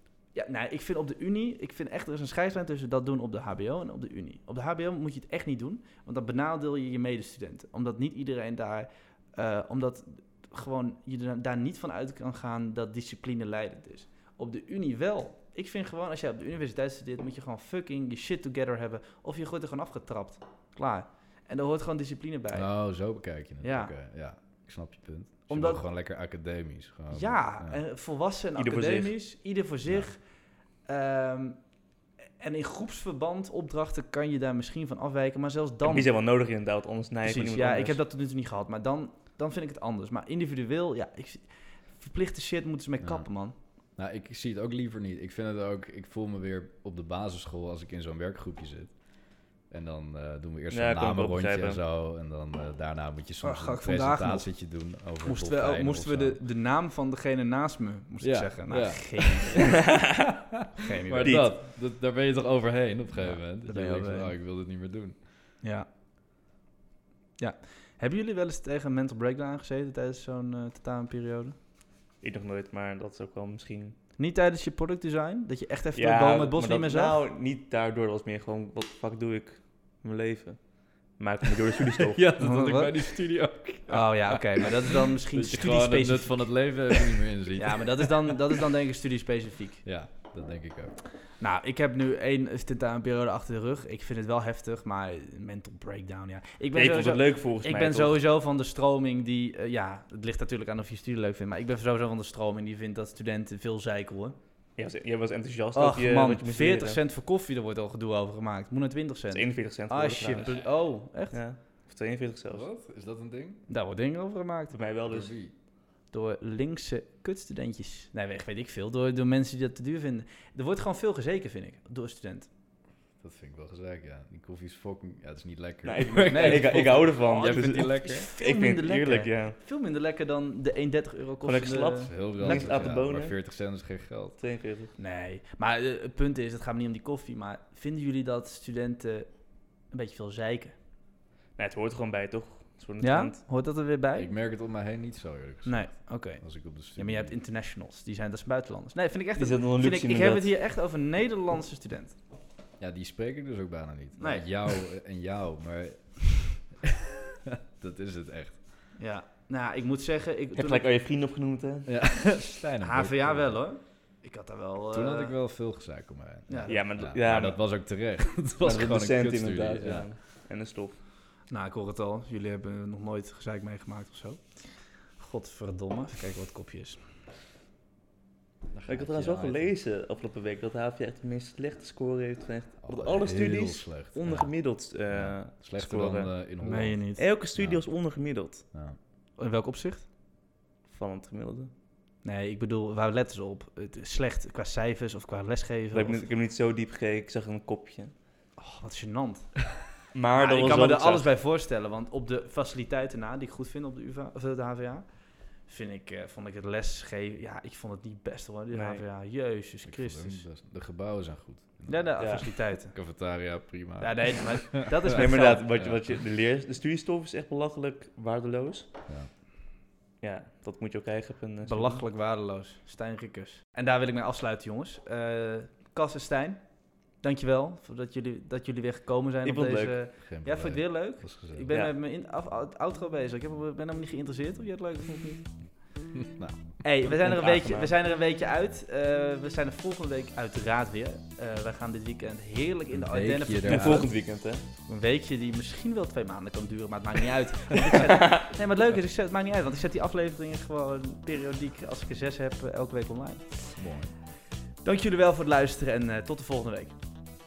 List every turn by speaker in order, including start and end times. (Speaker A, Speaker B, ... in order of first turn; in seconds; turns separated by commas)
Speaker A: 0.3-22.7, Speaker B: 22.5-27.8, Speaker A: 23.6-23.9, Speaker A: 25.5-25.8, Speaker A: 27.1-30.2, Speaker C: 28.6-29.1, Speaker A: 30.9-31.6, Speaker A: 32.4-36.1, Speaker C: 35.8-38.0, Speaker A: 37.2-41.5, Speaker A: 42.0-43.5, Speaker B: 44.0-49.0, Speaker B: 49.7-56.4, Speaker C: 50.7-51.8, Speaker A: 53.4-54.5, Speaker A: 55.2-59.9, Speaker B: 58.2-65.2, Speaker C: 59.8-60.3, Speaker A: 60.8-61.5, Speaker C: 61.2-61.5, Speaker A: 63.2-64.3, Speaker A: 65.6-65.9, Speaker A: 67.4-71.5, Speaker C: 72.2-74.0, Speaker A: 74.2-77.2, Speaker C: 76.0-82.2, Speaker B: 82.0-88.6, Speaker A: 82.4-83.1, Speaker A: 83.9-86.5, Speaker A: 87.6-89.8, Speaker B: 89.8-91.0, Speaker A: 91.4-104.4, Speaker C: 96.7-98.2, Speaker C: 104.8-107.0, Speaker A: 105.8-111.4, Speaker C: 109.3-110.7, Speaker C: 111.3-112.7, Speaker B: 112.5-113.7, Speaker A: 113.7-114.8, Speaker C: 114.7-115.3, Speaker B: 115.1-115.5, Speaker A: 116.1-122.5, Speaker B: 123.2-128.3, Speaker C: 125.8-129.6, Speaker A: 126.3-132.8, Speaker C: 131.4-133.3, Speaker B: 132.0-134.4, Speaker C: 134.4-134.9, Speaker A: 135.0-139.3, Speaker A: 139.9-140.7, Speaker C: 141.6-143.4, Speaker A: 143.0-144.3, Speaker B: 144.2-147.3, Speaker A: 145.7-152.2, Speaker C: 149.4-150.5, Speaker B: 152.8-156.9, Speaker A: 154.2-154.5, Speaker B: 157.5-158.6, Speaker A: 159.0-160.9, Speaker C: 160.5-161.9, Speaker B: 161.9-163.6, Speaker A: 162.8-165.3, Speaker B: 164.9-170.1, Speaker A: 166.5-166.8, Speaker C: 166.7-167.6, Speaker C: 168.6-171.0, Speaker A: 171.5-174.4, Speaker A: 175.2-177.0, Speaker B: 178.7-179.7, Speaker C: 178.9-186.3, Speaker B: 182.8-184.5, Speaker B: 185.1-187.0, Speaker A: 186.6-187.2, Speaker C: 187.2-188.6, Speaker B: 187.6-187.9, Speaker A: 189.4-190.1, Speaker C: 190.9-191.7, Speaker A: 192.2-196.3, Speaker C: 195.9-198.1, Speaker A: 198.6-199.6, Speaker C: 200.1-201.3, Speaker A: 200.4-205.1, Speaker A: 205.7-210.4, Speaker C: 208.7-209.0, Speaker B: 209.9-215.2, Speaker A: 211.9-213.0, Speaker C: 212.2-212.5, Speaker A: 214.0-215.7, Speaker C: 215.1-218.9, Speaker C: 220.2-222.0, Speaker A: 221.7-226.6, Speaker A: 227.2-235.5, Speaker C: 229.4-230.0, Speaker B: 230.2-231.7, Speaker B: 236.1-236.7, Speaker A: 236.8-244.2, Speaker C: 237.1-237.9, Speaker B: 242.9-244.1, Speaker C: 243.7-244.6, Speaker A: 244.9-253.8, Speaker B: 253.8-254.1, Speaker A: 254.8-256.9